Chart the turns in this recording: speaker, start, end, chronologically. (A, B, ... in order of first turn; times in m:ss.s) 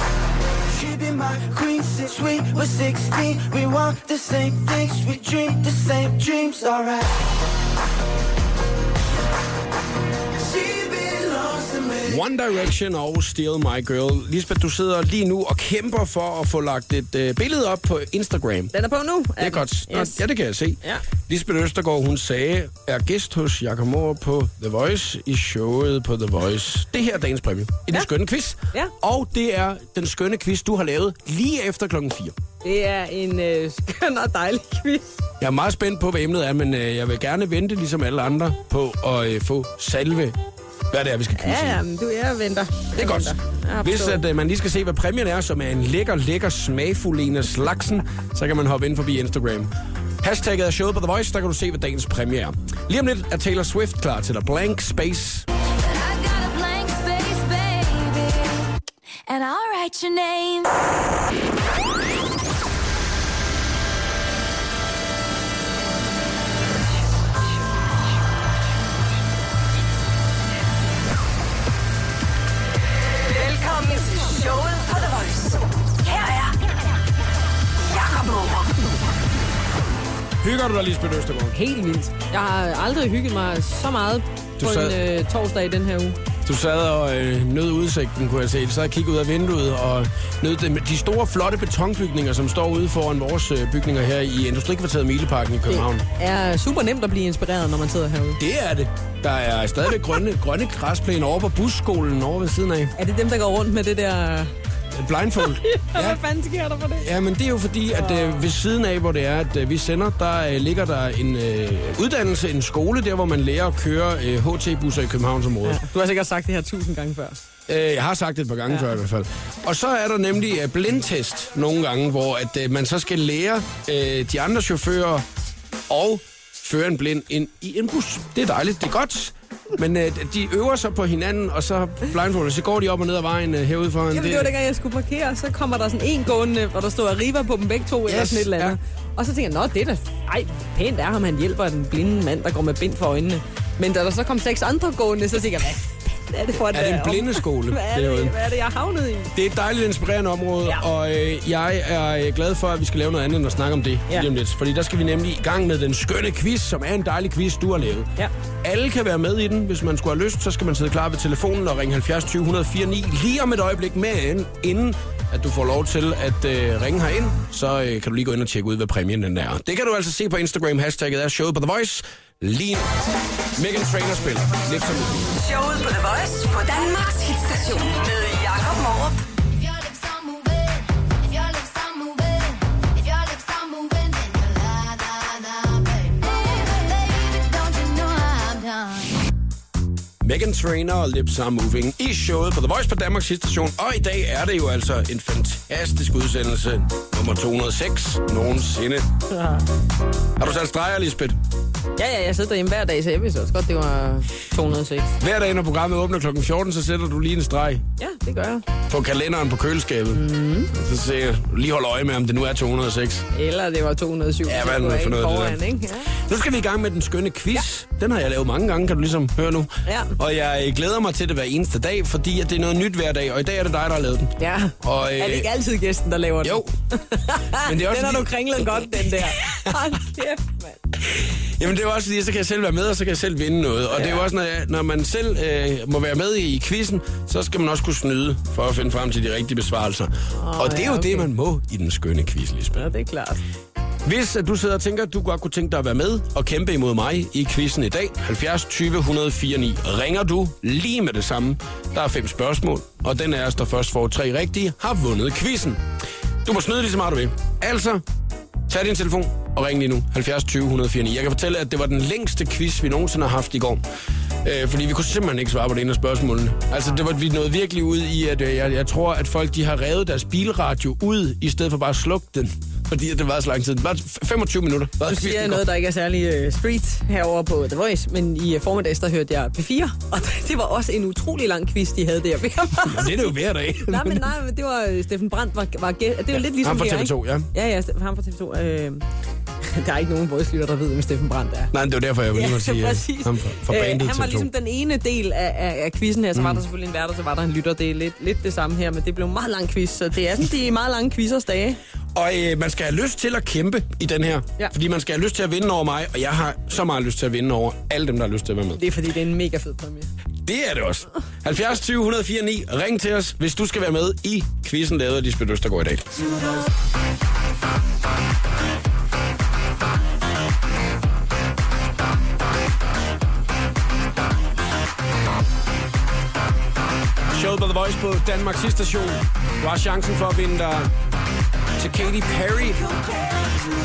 0:00.7-0:07.3 A
0:10.4-0:12.2 A
0:12.1-0:18.7 B
0:18.7-0:20.2 C
0:19.4-0:32.4 B
0:32.6-0:35.1 C
0:35.4-0:40.4 B
0:40.9-0:41.8 B
0:41.4-0:44.2 C
0:43.0-0:49.7 B
0:50.2-0:55.5 B
0:55.8-0:58.7 D
0:59.3-1:00.7 D
1:13.2-1:16.6 E
1:17.8-1:18.9 E
1:20.4-1:21.6 B
1:21.5-1:26.2 C
1:24.6-1:25.0 B
1:26.4-1:36.1 B
1:35.7-1:38.4 C
1:38.4-1:42.9 B
1:43.0-1:44.5 C
1:44.9-1:46.2 B
1:45.4-1:47.1 C
1:47.0-1:55.8 B
1:47.9-1:48.5 C
1:55.6-1:57.4 C
1:57.7-2:05.3 B
2:05.9-2:14.5 B
2:14.1-2:29.4 C
2:18.1-2:18.8 B
2:26.6-2:28.4 B
2:29.3-2:38.1 B
2:38.6-2:52.9 B
2:53.6-2:55.3 B
2:55.3-2:59.2 E
2:59.4-3:09.2 D
3:10.2-3:19.1 B
3:19.3-3:19.7 C
3:20.4-3:21.4 B
3:22.0-3:25.2 C
3:25.2-3:27.8 B
3:28.0-3:28.6 C
3:28.9-3:33.3 B
3:30.1-3:30.7 C
3:33.3-3:36.1 C
3:34.4-3:45.5 B
3:39.8-3:40.1 C
3:44.4-3:50.8 C
3:46.4-3:46.7 B
3:47.5-3:49.8 B
3:51.1-4:02.8 B
3:53.9-3:54.2 C
4:00.4-4:01.3 C
4:02.8-4:03.4 C
4:04.0-4:15.8 B
4:16.4-4:18.0 B
4:18.7-4:23.8 B
4:24.4-4:35.7 B
4:35.0-4:49.0 C
4:42.8-4:44.3 B
4:46.3-4:47.5 B
4:49.6-4:51.7 C
4:51.7-4:54.5 B
4:52.3-5:01.8 C
4:56.4-4:56.6 B
5:02.1-5:08.9 B
5:08.8-5:10.1 C
5:10.4-5:16.2 B
5:27.3-5:30.9 B
5:31.8-5:32.9 B